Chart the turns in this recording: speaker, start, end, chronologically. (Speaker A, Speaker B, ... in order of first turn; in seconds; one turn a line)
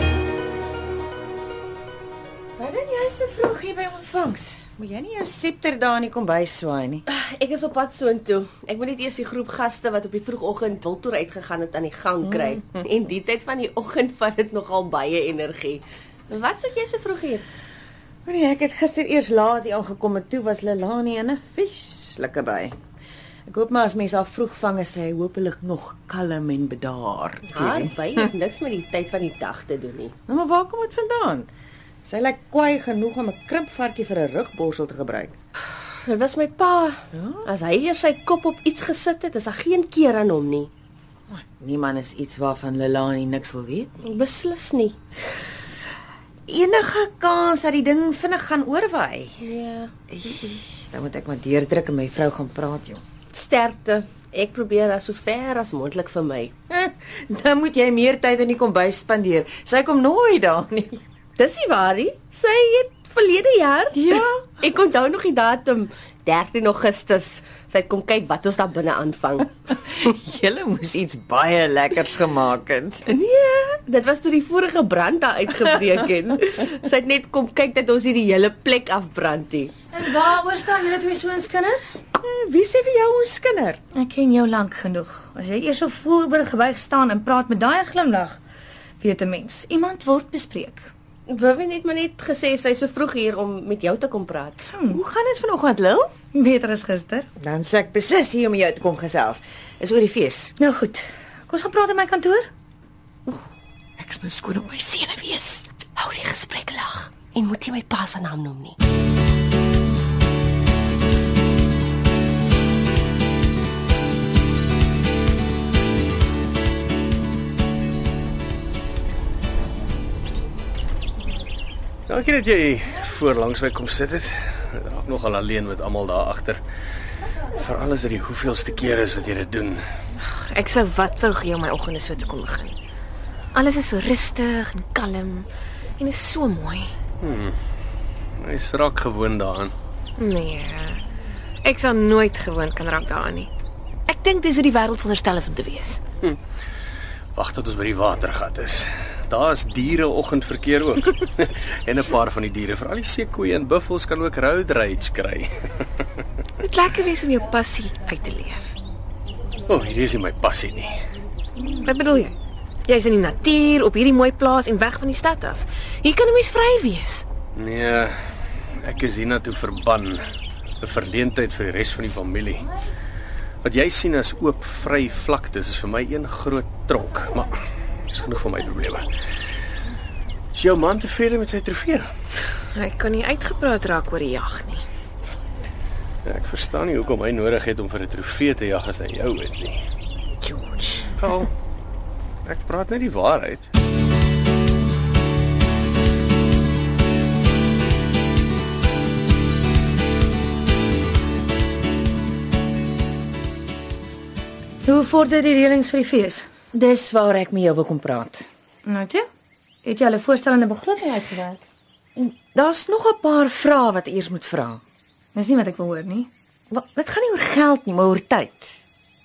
Speaker A: 2.6-7.0
Speaker B: 7.1-17.4
Speaker A: 18.2-22.7
Speaker A: 23.5-28.3
Speaker B: 27.5-30.1
Speaker A: 30.3-31.5
Speaker A: 32.0-35.3
Speaker B: 36.0-40.7
Speaker A: 37.1-37.5
Speaker A: 41.3-44.0
Speaker B: 44.0-45.0
Speaker A: 46.5-49.5
Speaker B: 49.4-49.9
Speaker A: 50.1-53.0
Speaker B: 53.3-56.5
Speaker A: 56.7-61.0
Speaker B: 61.4-69.5
Speaker A: 63.9-64.5
Speaker A: 69.8-73.1
Speaker B: 73.1-79.7
Speaker C: 79.9-81.8
Speaker A: 82.2-83.8
Speaker C: 83.9-88.4
Speaker C: 89.0-90.9
Speaker B: 91.3-94.6
Speaker C: 94.7-95.0
Speaker A: 94.9-96.1
Speaker C: 96.3-97.3
Speaker A: 97.4-100.5
Speaker C: 100.6-102.5
Speaker A: 104.0-107.0
Speaker B: 107.1-108.8
Speaker D: 122.1-126.6
Speaker D: 127.5-129.8
Speaker E: 130.2-132.8
Speaker E: 133.5-136.9
Speaker D: 137.2-137.5
Speaker D: 138.4-139.7
Speaker E: 140.2-141.0
Speaker E: 141.6-143.5
Speaker E: 144.1-146.0
Speaker D: 147.3-155.5
Speaker E: 156.6-158.6
Speaker D: 159.7-160.9
Speaker E: 161.8-162.3
Speaker E: 162.9-167.2
Speaker D: 167.5-168.1
Speaker D: 168.8-170.2
Speaker D: 170.8-172.7
Speaker D: 173.6-177.5
Speaker D: 178.1-179.1
Speaker D: 180.5-182.1
Speaker E: 182.7-184.8
Speaker D: 186.2-189.8
Speaker E: 190.4-191.3
Speaker D: 191.2-191.5
Speaker D: 192.4-193.7
Speaker C: 204.8-206.4
Speaker A: 206.7-208.4
Speaker C: 208.8-209.2
Speaker C: 209.8-211.6
Speaker A: 212.2-214.8
Speaker C: 215.3-216.3
Speaker A: 216.7-218.7